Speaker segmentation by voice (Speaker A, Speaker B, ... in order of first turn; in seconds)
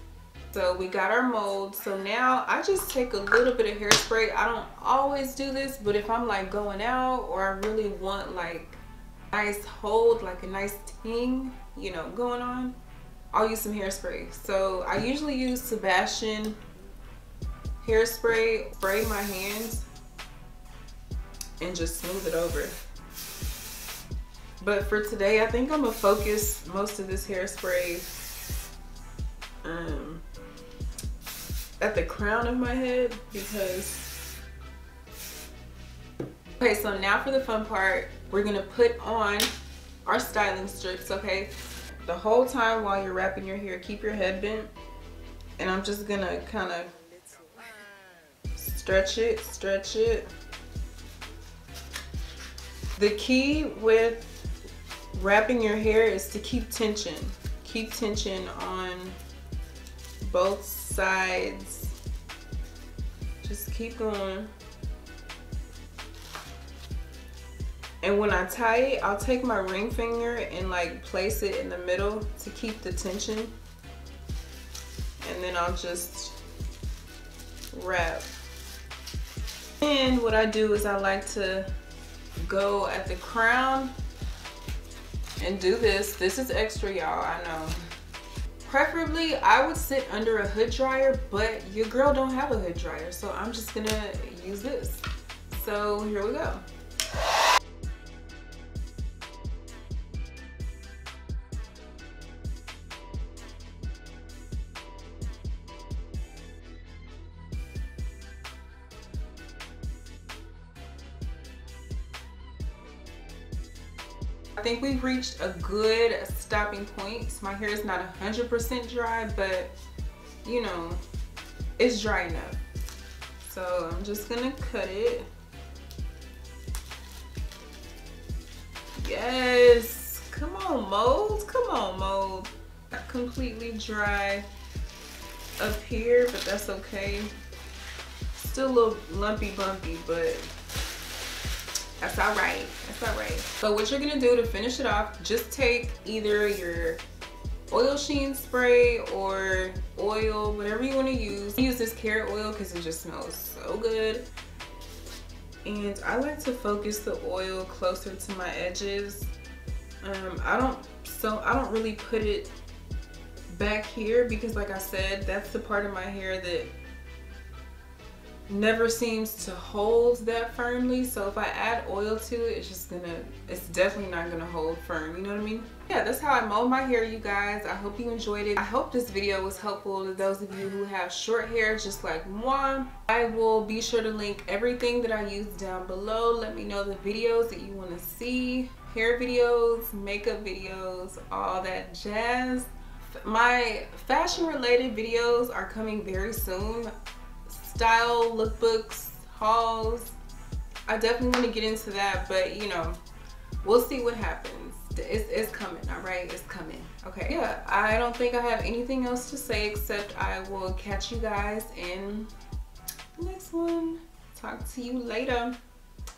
Speaker A: 0.5-8.8, 9.3-12.8, 13.3-16.6, 17.8-19.9, 21.6-22.8, 24.6-28.1, 29.6-30.2, 31.8-34.1, 36.6-39.5, 40.0-44.7, 45.6-46.9, 48.5-50.3, 53.0-54.5, 55.1-59.2, 60.2-62.0, 63.4-64.5, 68.0-73.5, 75.2-76.4, 77.7-78.3, 79.8-81.7, 82.4-83.9, 85.4-87.8, 88.7-96.7, 114.6-119.7, 120.4-121.0, 121.8-122.6, 123.5-125.3, 129.0-134.5, 135.6-137.3, 138.3-140.5, 142.0-147.0, 147.7-154.3, 155.7-159.3, 160.0-162.5, 163.5-166.7, 168.5-196.9, 197.5-200.2, 200.9-203.0, 203.6-212.3, 213.2-215.6